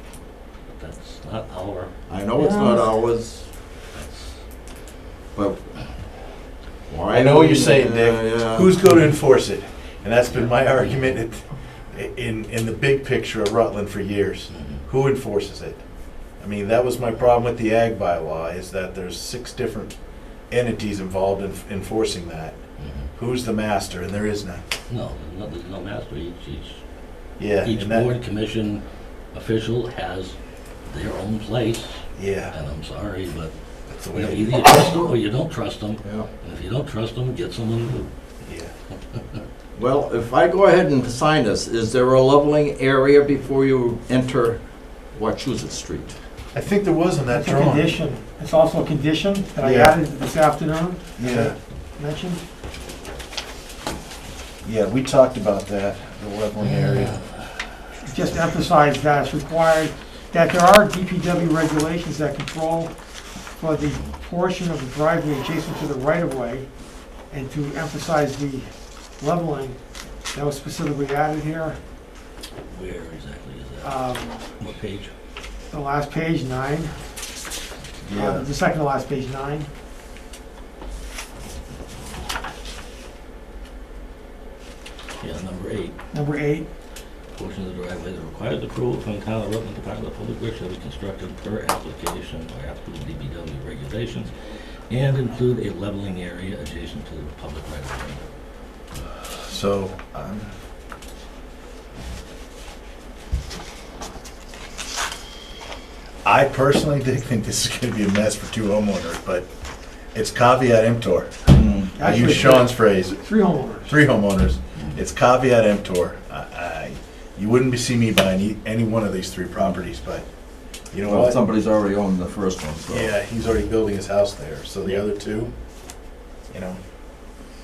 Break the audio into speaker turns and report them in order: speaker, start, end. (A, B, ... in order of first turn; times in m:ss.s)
0:00.8-0:01.9 A
0:02.1-0:03.5 B
0:03.9-0:04.4 A
0:05.3-0:05.6 B
0:06.9-0:08.8 B
0:07.1-0:15.8 C
0:10.3-0:11.1 A
0:14.5-0:14.8 A
0:16.4-0:19.9 C
0:20.5-0:22.6 C
0:22.8-0:23.1 A
0:23.2-0:24.6 C
0:24.9-0:26.8 A
0:27.4-0:28.1 C
0:27.6-0:30.3 A
0:30.8-0:33.5 A
0:32.2-0:32.6 C
0:33.9-0:35.0 C
0:34.1-0:38.1 A
0:36.0-0:36.3 B
0:38.4-0:38.7 C
0:39.8-0:46.1 B
0:46.5-0:47.9 C
0:47.3-0:52.4 D
0:49.6-0:50.0 C
0:51.2-0:51.5 C
0:54.6-0:57.2 C
0:56.6-0:57.6 A
0:58.0-1:02.9 D
1:03.6-1:06.7 D
1:03.8-1:04.1 A
1:07.3-1:08.7 D
1:09.2-1:09.8 D
1:10.3-1:11.8 D
1:12.7-1:15.1 A
1:13.8-1:14.4 D
1:15.7-1:16.9 D
1:18.0-1:18.5 C
1:18.1-1:19.7 D
1:25.2-1:25.9 A
1:26.1-1:26.7 D
1:27.4-1:34.3 A
1:34.9-1:38.2 A
1:39.3-1:40.5 C
1:46.2-1:49.5 C
1:50.1-1:53.3 C
1:51.5-1:52.3 B
1:52.0-1:53.9 D
1:53.8-2:00.2 C
2:00.9-2:01.4 C
2:01.0-2:03.1 B
2:02.9-2:05.5 C
2:06.5-2:06.8 C